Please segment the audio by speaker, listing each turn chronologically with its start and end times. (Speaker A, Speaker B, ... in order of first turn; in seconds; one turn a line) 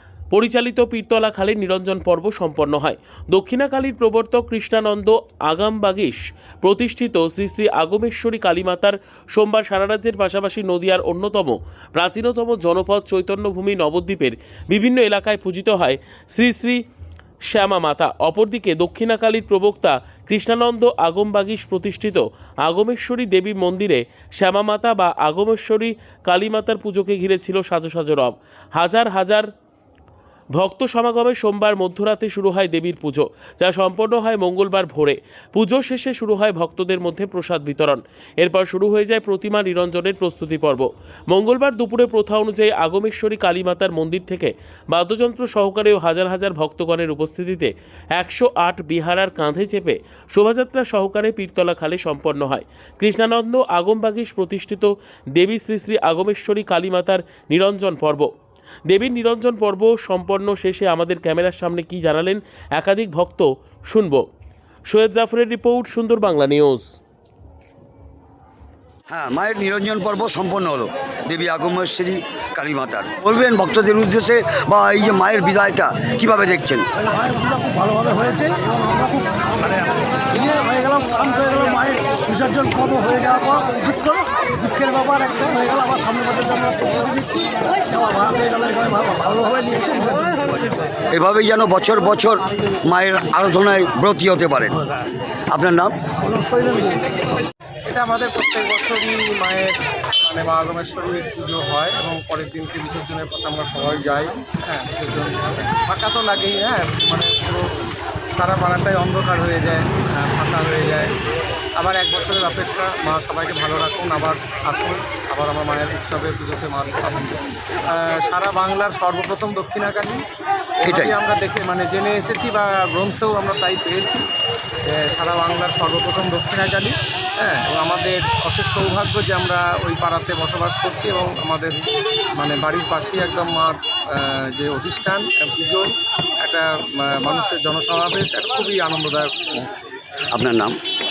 Speaker A: 0.3-16.8
Speaker A: 17.5-29.5
Speaker A: 30.6-58.3
Speaker A: 58.9-64.3
Speaker A: 64.9-66.9
Speaker B: 69.1-76.9
Speaker C: 77.1-90.8
Speaker B: 91.1-94.8
Speaker B: 95.5-95.9
Speaker C: 96.3-97.0
Speaker D: 97.9-107.7
Speaker D: 108.3-111.1
Speaker D: 111.8-120.2
Speaker D: 120.8-124.2
Speaker B: 120.9-121.1
Speaker D: 124.8-131.8
Speaker D: 132.4-135.9
Speaker D: 136.4-139.7
Speaker B: 140.3-140.8